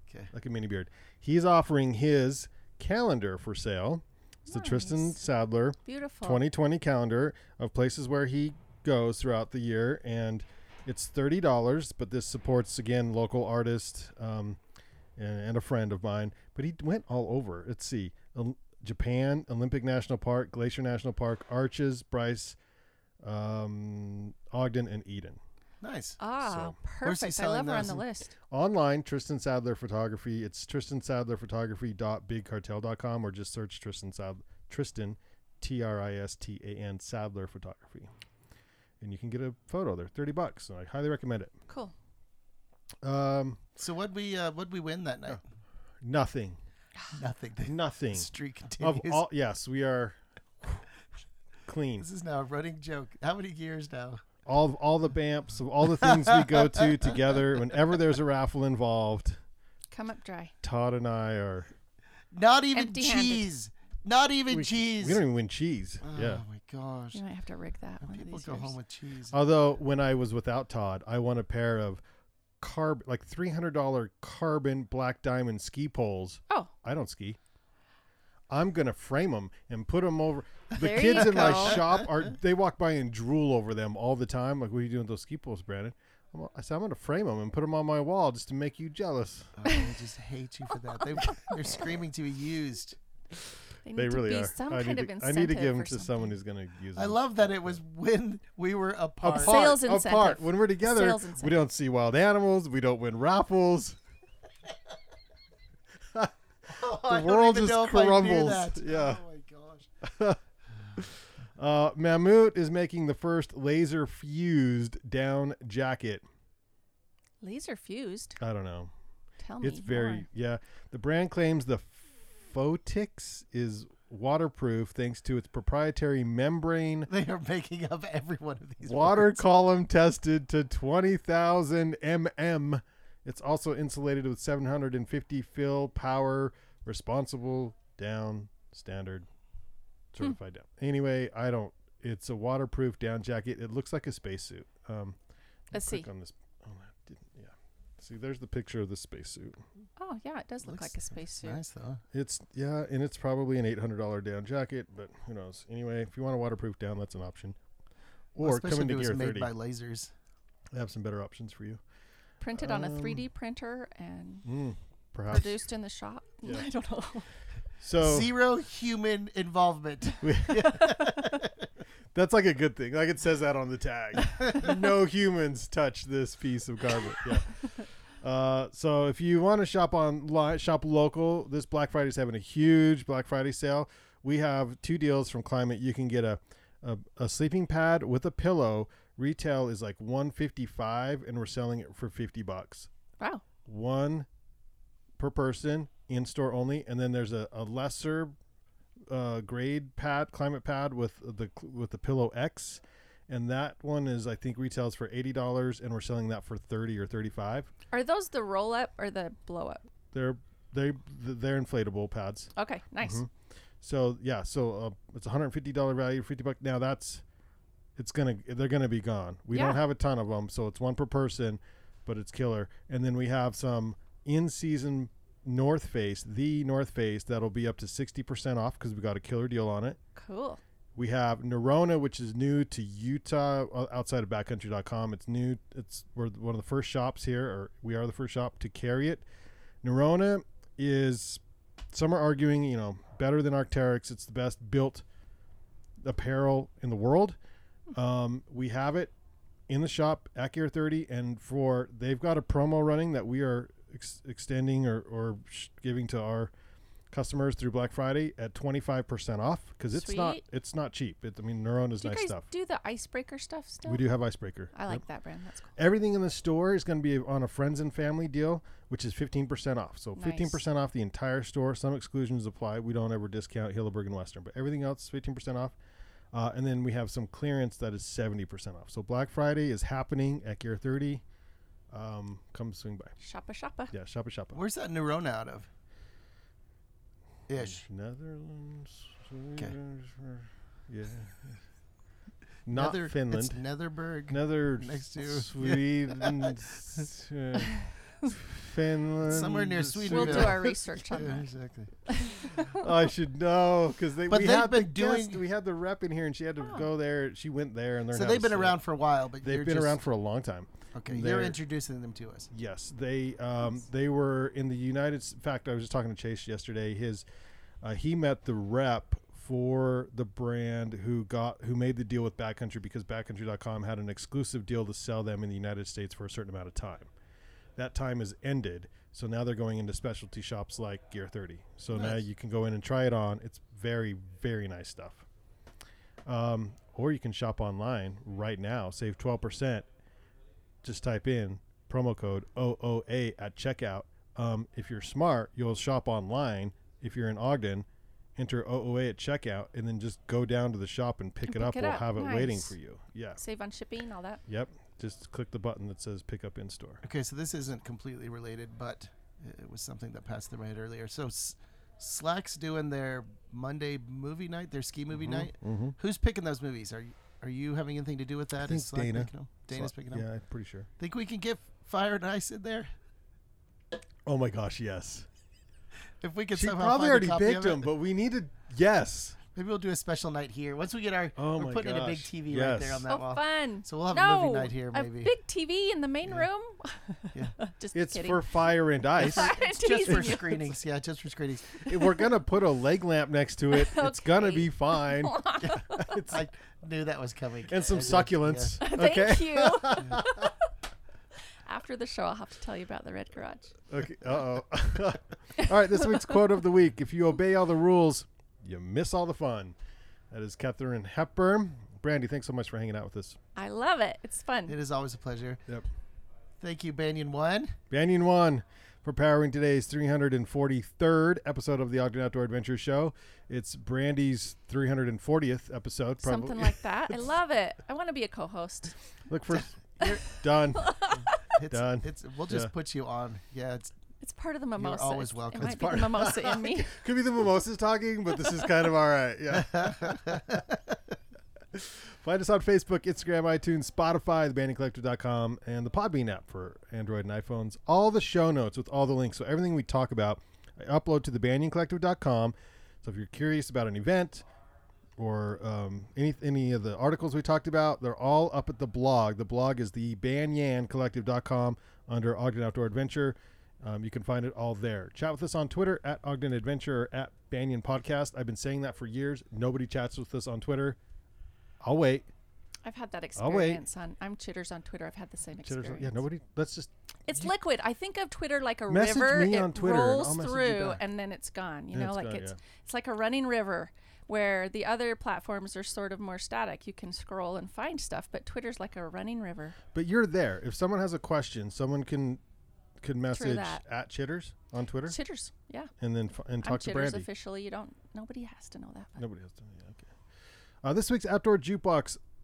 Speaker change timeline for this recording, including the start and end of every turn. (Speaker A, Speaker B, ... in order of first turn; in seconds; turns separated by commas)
Speaker A: 0.3-14.6, Speaker B: 4.5-5.2, Speaker B: 5.8-6.4, Speaker A: 15.2-22.6, Speaker A: 23.2-25.4, Speaker C: 25.8-26.2, Speaker B: 26.2-28.4, Speaker A: 26.4-26.8, Speaker C: 27.0-28.0, Speaker A: 28.5-38.1, Speaker A: 39.0-41.5, Speaker B: 41.7-41.9, Speaker A: 43.0-43.6, Speaker C: 43.8-45.4, Speaker A: 46.0-46.6, Speaker C: 47.1-49.2, Speaker A: 47.6-50.9, Speaker A: 51.7-52.1, Speaker C: 52.0-54.2, Speaker A: 54.5-59.4, Speaker B: 59.9-60.5, Speaker A: 60.6-61.7, Speaker C: 62.3-65.2, Speaker B: 62.7-63.5, Speaker A: 64.5-66.4, Speaker C: 66.0-67.2, Speaker B: 67.1-68.8, Speaker C: 68.0-69.4, Speaker A: 69.3-72.0, Speaker A: 72.6-77.4, Speaker A: 78.5-89.6, Speaker B: 80.8-81.8, Speaker C: 81.2-82.1, Speaker C: 89.6-93.0, Speaker B: 93.8-96.3, Speaker A: 93.9-97.8, Speaker C: 97.0-99.6, Speaker A: 99.2-104.0, Speaker B: 99.3-101.6, Speaker A: 106.1-109.2, Speaker C: 106.7-109.9, Speaker A: 110.0-110.4, Speaker A: 111.0-116.2, Speaker B: 117.4-118.4, Speaker A: 118.4-118.9, Speaker B: 119.4-120.3, Speaker A: 119.6-127.1, Speaker C: 127.1-129.4, Speaker A: 128.8-139.3, Speaker A: 140.1-145.2, Speaker A: 145.7-149.6, Speaker B: 145.7-146.1, Speaker B: 150.0-151.6, Speaker C: 150.6-152.0, Speaker A: 152.1-157.6, Speaker A: 158.4-159.5, Speaker C: 158.4-160.1, Speaker A: 160.7-161.8, Speaker B: 162.4-164.5, Speaker A: 162.6-163.3, Speaker A: 164.4-165.6, Speaker B: 165.3-167.3, Speaker A: 167.8-168.3, Speaker C: 168.0-171.5, Speaker A: 170.2-171.1, Speaker A: 172.1-192.9, Speaker A: 193.7-194.3, Speaker A: 195.2-198.3, Speaker A: 199.1-207.7, Speaker B: 207.9-209.8, Speaker A: 210.1-212.5, Speaker B: 212.6-213.2, Speaker A: 213.0-213.3, Speaker A: 213.8-217.2, Speaker A: 218.0-230.0, Speaker B: 219.5-219.8, Speaker B: 230.2-230.6, Speaker A: 230.9-239.2, Speaker A: 239.8-245.0, Speaker A: 246.0-247.4, Speaker A: 247.9-249.1, Speaker A: 249.7-256.5, Speaker A: 257.1-262.4, Speaker B: 259.9-260.4, Speaker B: 262.0-264.1, Speaker A: 263.9-265.0, Speaker B: 264.7-265.7, Speaker A: 265.8-275.8, Speaker B: 270.2-270.6, Speaker A: 276.3-281.2, Speaker A: 281.9-283.1, Speaker B: 283.2-283.9, Speaker A: 283.9-284.6, Speaker C: 284.5-285.7, Speaker C: 287.5-287.9, Speaker A: 287.5-291.6, Speaker A: 292.7-293.6, Speaker C: 292.7-297.1, Speaker A: 294.3-300.8, Speaker C: 299.2-301.9, Speaker B: 300.1-301.5, Speaker B: 302.1-302.8, Speaker A: 302.7-308.8, Speaker C: 304.3-305.4, Speaker B: 306.6-306.9, Speaker C: 308.1-310.0, Speaker A: 309.4-311.6, Speaker C: 310.9-312.5, Speaker A: 312.5-317.2, Speaker A: 317.8-327.1, Speaker A: 327.8-335.3, Speaker C: 331.9-332.2, Speaker A: 336.3-339.9, Speaker A: 340.8-353.4, Speaker B: 351.4-352.8, Speaker B: 353.4-354.4, Speaker A: 354.5-357.0, Speaker C: 357.0-370.2, Speaker A: 365.1-366.0, Speaker A: 368.6-370.9, Speaker C: 371.0-372.9, Speaker A: 374.3-375.3, Speaker C: 376.2-377.9, Speaker A: 376.5-379.4, Speaker C: 379.5-385.3, Speaker A: 381.4-383.1, Speaker B: 383.1-388.6, Speaker A: 387.9-389.5, Speaker C: 389.2-391.9, Speaker B: 389.2-390.8, Speaker A: 390.1-390.5, Speaker A: 391.8-396.4, Speaker B: 393.7-396.2, Speaker C: 396.3-398.8, Speaker A: 397.6-400.5, Speaker B: 398.8-400.5, Speaker B: 401.6-403.8, Speaker A: 403.9-409.8, Speaker A: 410.3-413.4, Speaker B: 413.6-414.8, Speaker C: 414.7-415.6, Speaker C: 416.6-417.8, Speaker A: 417.9-427.3, Speaker B: 426.2-428.9, Speaker A: 429.3-431.1, Speaker B: 430.8-431.4, Speaker C: 431.4-434.0, Speaker A: 431.7-432.7, Speaker B: 434.2-436.9, Speaker C: 434.8-436.1, Speaker A: 435.6-440.6, Speaker C: 439.6-440.9, Speaker A: 441.7-454.5, Speaker A: 455.2-471.0, Speaker A: 471.8-472.3, Speaker B: 472.8-476.2, Speaker A: 473.4-473.8, Speaker A: 475.6-477.5, Speaker B: 477.3-489.8, Speaker A: 478.9-481.0, Speaker A: 481.9-482.6, Speaker A: 489.9-492.4, Speaker A: 493.0-495.2, Speaker B: 493.3-493.8, Speaker B: 495.1-495.9, Speaker A: 496.0-497.3, Speaker B: 496.6-499.2, Speaker A: 499.2-500.1, Speaker A: 500.8-502.2